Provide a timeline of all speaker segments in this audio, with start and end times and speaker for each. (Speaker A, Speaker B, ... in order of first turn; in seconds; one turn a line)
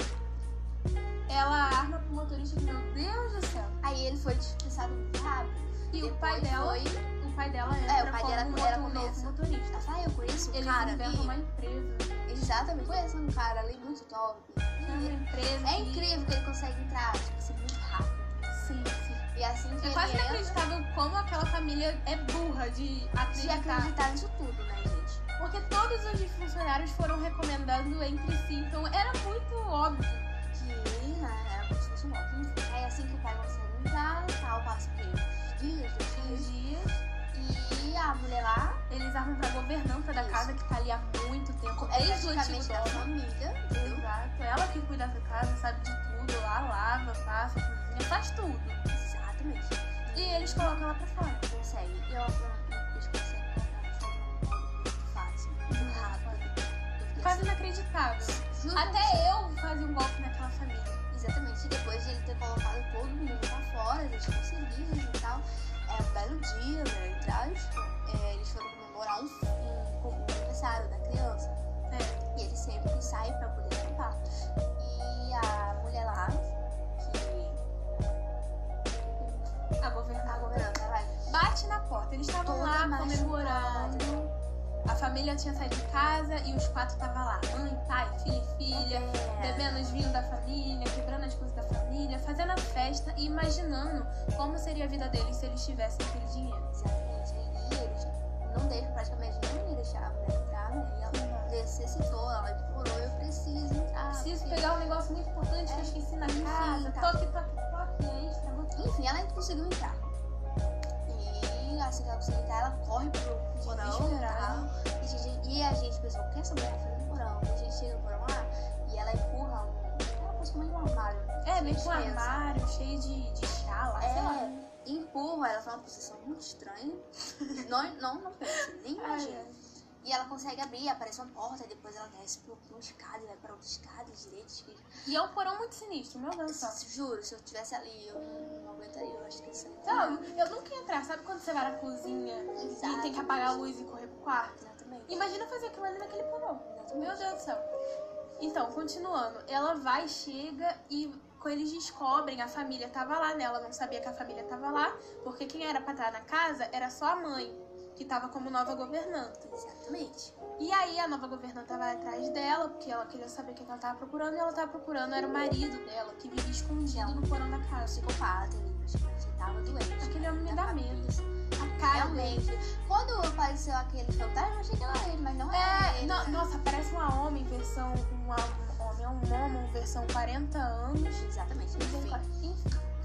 Speaker A: 1.3-3.8
Speaker B: 3.8-7.0
Speaker A: 5.9-9.9
Speaker B: 7.9-11.4
Speaker A: 10.5-12.5
Speaker B: 12.3-20.6
Speaker A: 14.8-16.1
Speaker A: 18.6-19.2
Speaker A: 19.8-23.9
Speaker B: 23.3-25.2
Speaker A: 25.4-30.3
Speaker B: 30.5-36.5
Speaker A: 36.2-36.9
Speaker B: 37.3-38.8
Speaker A: 38.9-43.1
Speaker B: 40.1-40.6
Speaker B: 41.7-44.1
Speaker A: 43.8-48.8
Speaker B: 48.9-50.8
Speaker A: 50.1-51.5
Speaker B: 51.5-57.6
Speaker A: 55.7-56.5
Speaker A: 57.2-61.0
Speaker B: 58.2-59.3
Speaker B: 61.1-71.6
Speaker A: 71.9-72.2
Speaker B: 72.3-74.2
Speaker B: 74.8-77.6
Speaker B: 79.0-79.7
Speaker A: 79.8-80.7
Speaker B: 80.2-81.3
Speaker A: 81.3-84.3
Speaker B: 82.4-84.2
Speaker A: 84.9-96.7
Speaker B: 88.7-90.0
Speaker B: 96.7-104.7
Speaker A: 101.1-101.5
Speaker A: 104.1-108.9
Speaker B: 105.7-107.2
Speaker B: 108.8-110.1
Speaker B: 111.1-122.5
Speaker A: 113.6-114.7
Speaker A: 121.4-124.6
Speaker B: 124.0-129.5
Speaker A: 129.0-129.6
Speaker B: 130.0-134.9
Speaker A: 135.1-136.8
Speaker B: 136.5-140.3
Speaker A: 139.8-144.6
Speaker B: 142.6-143.7
Speaker B: 144.6-145.3
Speaker A: 145.1-147.7
Speaker B: 146.7-147.4
Speaker A: 148.4-159.4
Speaker B: 159.4-160.3
Speaker A: 160.6-168.1
Speaker B: 166.9-176.5
Speaker A: 170.0-172.4
Speaker A: 175.5-181.3
Speaker B: 181.2-182.2
Speaker A: 181.8-182.8